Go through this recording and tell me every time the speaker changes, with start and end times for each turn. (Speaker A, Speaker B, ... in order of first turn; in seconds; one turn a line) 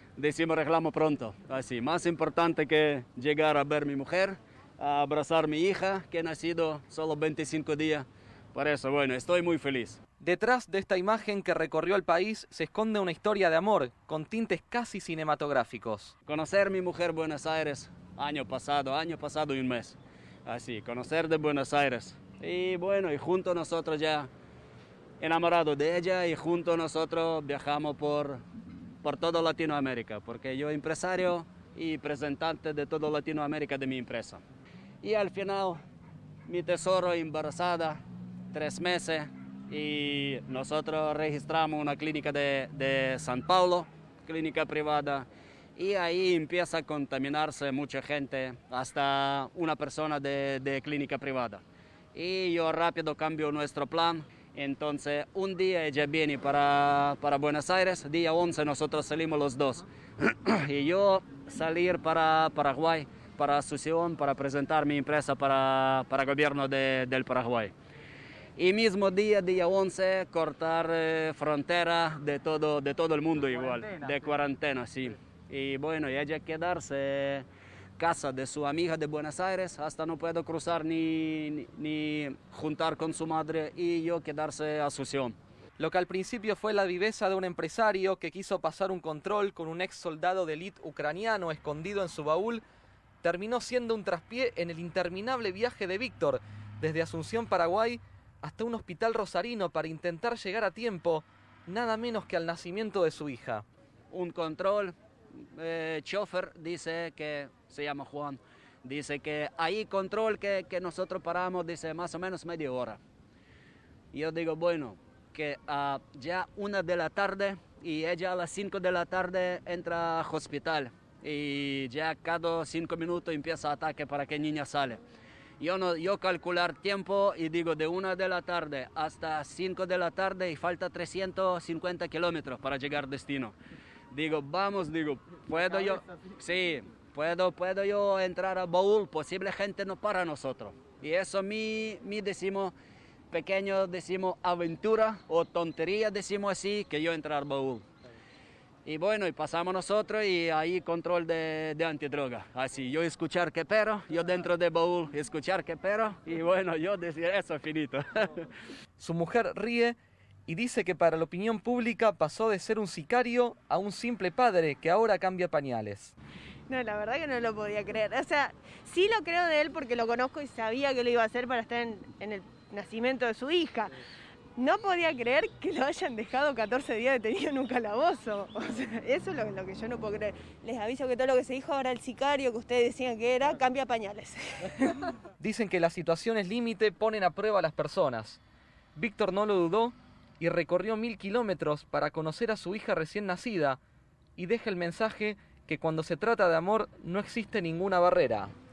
Speaker A: 0.2-10.0
Speaker B: 10.2-16.1
Speaker A: 16.3-24.3
Speaker A: 25.2-28.4
Speaker A: 29.0-34.4
Speaker A: 35.0-35.8
Speaker A: 36.5-38.0
Speaker A: 38.5-51.6
Speaker A: 52.1-67.7
Speaker A: 68.6-77.5
Speaker A: 78.0-85.4
Speaker B: 85.8-92.6
Speaker B: 93.2-103.7
Speaker A: 104.1-105.0
Speaker A: 105.5-113.0
Speaker A: 114.1-125.0
Speaker A: 125.6-133.5
Speaker A: 134.1-142.7
Speaker A: 143.3-147.8
Speaker A: 148.9-158.5
Speaker B: 159.0-166.1
Speaker C: 166.7-173.9
Speaker C: 174.6-185.1
Speaker B: 185.4-188.4
Speaker B: 188.9-193.8
Speaker B: 194.4-198.5